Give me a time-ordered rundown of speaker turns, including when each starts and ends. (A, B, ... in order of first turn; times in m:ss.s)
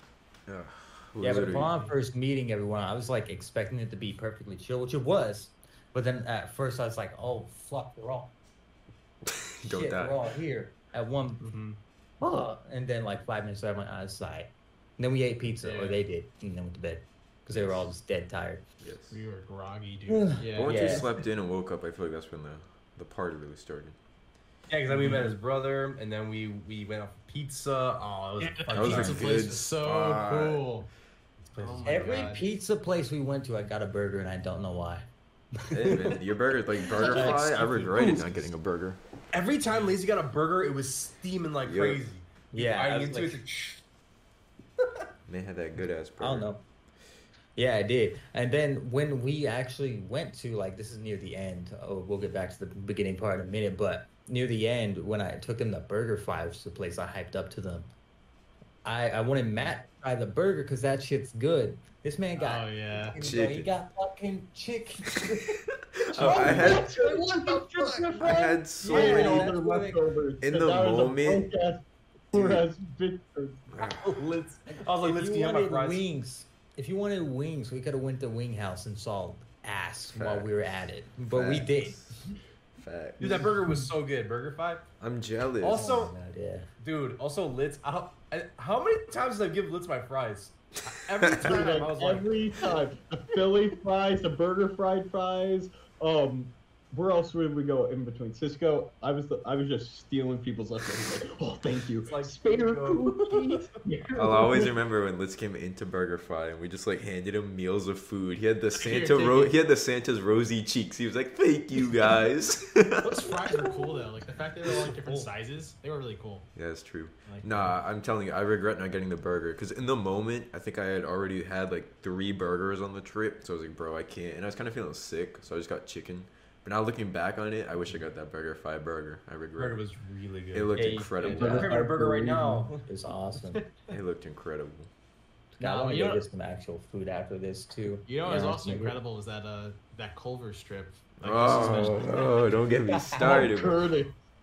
0:00.5-0:01.8 A
0:01.2-0:08.3 B
0:09.3-0:10.2 A
0:09.6-0:11.4 B
0:11.4-0:11.8 C
0:12.2-0:18.6 B
0:15.6-0:16.0 D
0:17.5-0:17.9 A
0:18.8-0:19.2 A
0:19.1-0:21.2 D
0:20.1-0:21.1 B
0:20.5-0:24.0 A
0:24.7-0:29.6 C
0:24.9-0:25.3 D
0:28.4-0:30.9 D
0:28.7-0:30.6 A
0:31.4-0:32.4 C
0:31.6-0:32.4 D
0:31.8-0:35.1 B
0:35.7-0:39.0 A
0:35.8-0:36.1 B
0:37.0-0:38.5 C
0:37.1-0:37.4 B
0:39.3-0:43.8 C
0:39.7-0:40.0 D
0:41.6-0:42.0 A
0:42.5-0:43.4 B
0:45.3-0:46.5 A
0:46.2-0:46.6 B
0:47.6-0:57.9 B
0:58.8-1:05.2 B
1:02.4-1:03.2 D
1:03.2-1:03.7 A
1:05.1-1:05.5 A
1:06.0-1:06.9 A
1:06.2-1:13.7 E
1:06.2-1:06.8 C
1:06.2-1:06.8 B
1:08.2-1:09.6 A
1:08.9-1:10.0 B
1:10.4-1:11.5 A
1:12.3-1:12.6 A
1:13.7-1:14.2 A
1:13.9-1:16.0 C
1:14.7-1:22.0 B
1:20.1-1:20.5 A
1:21.3-1:23.6 A
1:23.2-1:24.8 C
1:25.0-1:25.9 A
1:25.6-1:26.1 C
1:25.7-1:26.7 B
1:26.8-1:32.3 C
1:31.2-1:31.6 A
1:31.4-1:44.7 E
1:42.1-1:43.8 C
1:44.2-1:53.1 A
1:48.7-1:49.5 D
1:53.0-1:56.5 D
1:53.7-1:54.0 E
1:54.9-1:55.3 C
1:56.6-2:09.8 A
1:57.2-1:57.7 D
2:09.6-2:12.8 C
2:10.5-2:11.7 A
2:10.8-2:13.6 B
2:13.5-2:13.8 D
2:13.9-2:14.9 A
2:15.6-2:19.0 B
2:15.6-2:16.2 D
2:18.1-2:22.6 D
2:21.2-2:24.0 A
2:21.5-2:22.2 B
2:22.9-2:23.4 B
2:23.2-2:24.1 E